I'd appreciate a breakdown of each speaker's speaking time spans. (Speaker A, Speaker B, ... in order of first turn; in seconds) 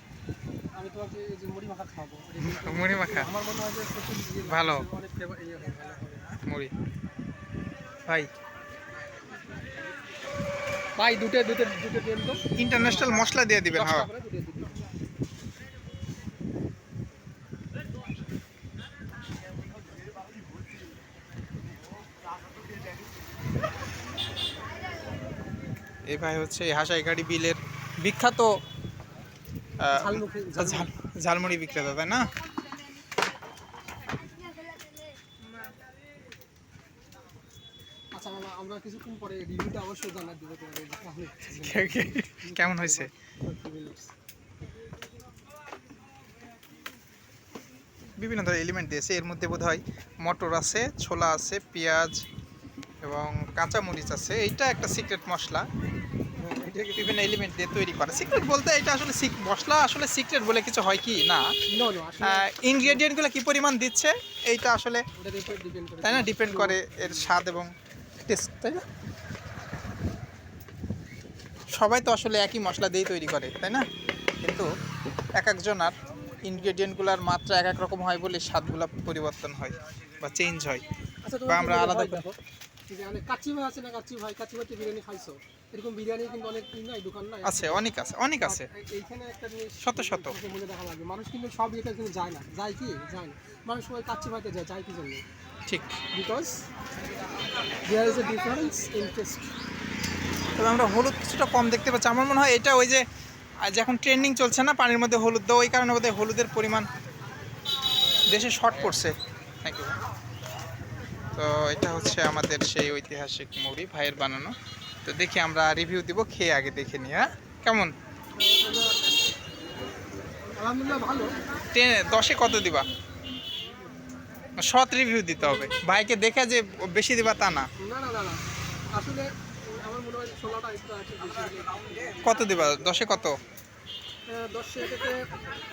Speaker A: 0.8-6.4, 11.0-14.8, 30.0-30.9, 38.1-44.1, 56.4-57.2, 61.7-63.0, 65.2-67.4, 81.2-82.4, 82.9-95.2, 96.1-96.5, 97.9-99.5, 118.3-119.0, 120.5-121.3, 127.8-128.4, 128.9-133.2, 134.3-135.2
Speaker B: 2.4-3.3, 4.5-4.8, 12.6-14.1, 26.1-28.5, 29.8-32.3, 41.5-43.1, 48.2-52.2, 53.0-55.6, 57.0-61.4, 62.2-65.0, 66.0-67.7, 68.2-68.8, 71.8-73.8, 74.4-74.7, 75.4-75.9, 76.4-80.8, 81.5-82.2, 87.5-88.7, 89.8-90.4, 95.7-96.0, 100.6-103.0, 103.7-106.9, 108.3-109.9, 111.3-114.5, 115.0-117.9, 121.7-122.8, 124.6-127.7, 132.2-133.3